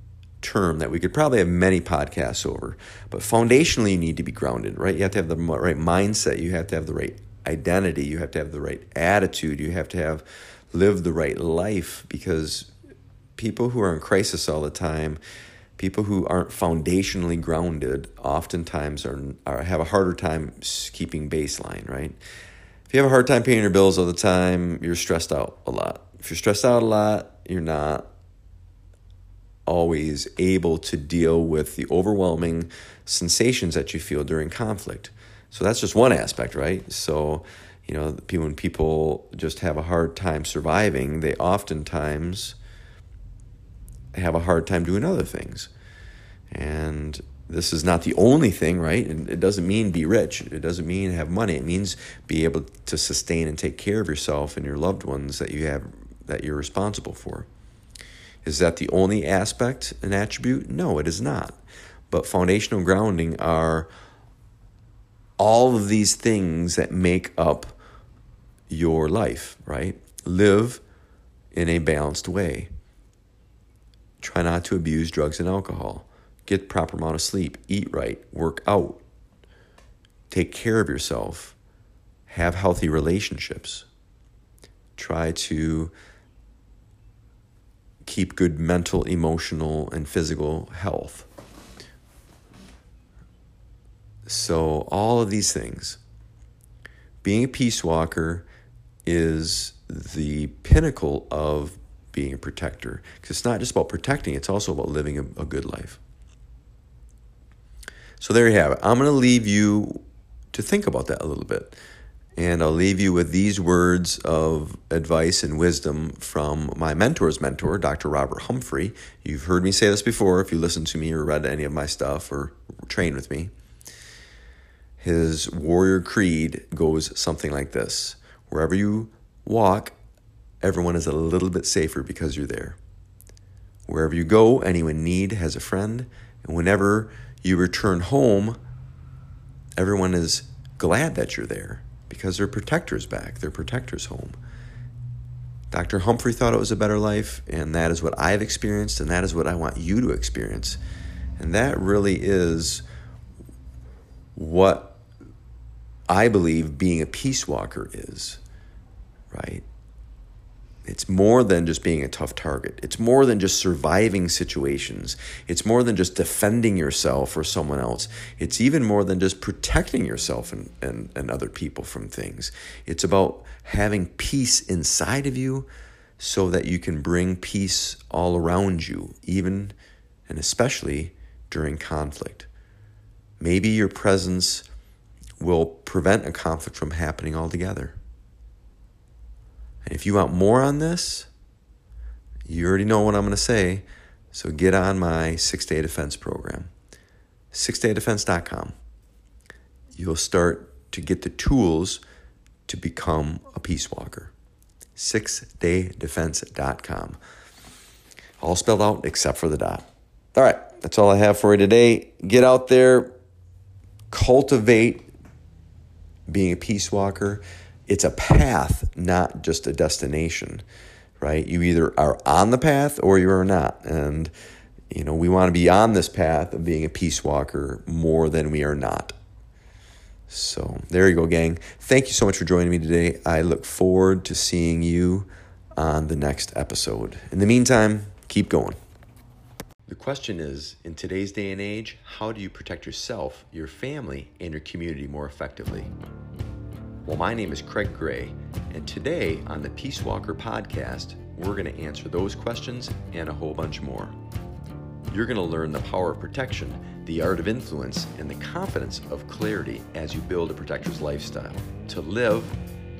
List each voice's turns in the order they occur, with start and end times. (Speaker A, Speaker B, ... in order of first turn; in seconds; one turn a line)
Speaker A: 0.4-12.7
Speaker A: 13.4-15.2
Speaker A: 15.8-22.2
Speaker A: 22.9-28.1
Speaker A: 29.7-42.6
Speaker A: 44.1-45.7
Speaker A: 46.5-57.5
Speaker A: 58.4-61.6
Speaker A: 62.1-63.9
Speaker A: 65.4-67.8
Speaker A: 68.7-70.8
Speaker A: 71.5-72.7
Speaker A: 74.2-79.0
Speaker A: 80.3-81.6
Speaker A: 82.3-83.9
Speaker A: 85.0-85.9
Speaker A: 88.0-91.3
Speaker A: 94.3-96.0
Speaker A: 97.2-98.5
Speaker A: 99.1-106.0
Speaker A: 108.2-111.8
Speaker A: 112.4-123.5
Speaker A: 125.0-129.9
Speaker A: 130.6-132.8
Speaker A: 133.9-138.6
Speaker A: 139.8-144.4
Speaker A: 145.7-150.8
Speaker A: 151.4-152.8
Speaker A: 154.4-155.0
Speaker A: 156.1-158.4
Speaker A: 159.3-159.7
Speaker A: 160.8-175.7
Speaker A: 176.2-179.8
Speaker A: 180.3-182.5
Speaker A: 183.4-184.7
Speaker A: 185.4-188.0
Speaker A: 189.9-191.3
Speaker A: 192.5-196.7
Speaker A: 197.5-198.8
Speaker A: 199.9-202.0
Speaker A: 202.7-204.3
Speaker A: 205.0-207.2
Speaker A: 208.4-213.1
Speaker A: 214.1-215.1
Speaker A: 216.3-220.6
Speaker A: 221.2-224.3
Speaker A: 224.9-229.2
Speaker A: 230.3-238.8
Speaker A: 239.9-245.9
Speaker A: 247.1-254.2
Speaker A: 255.1-262.6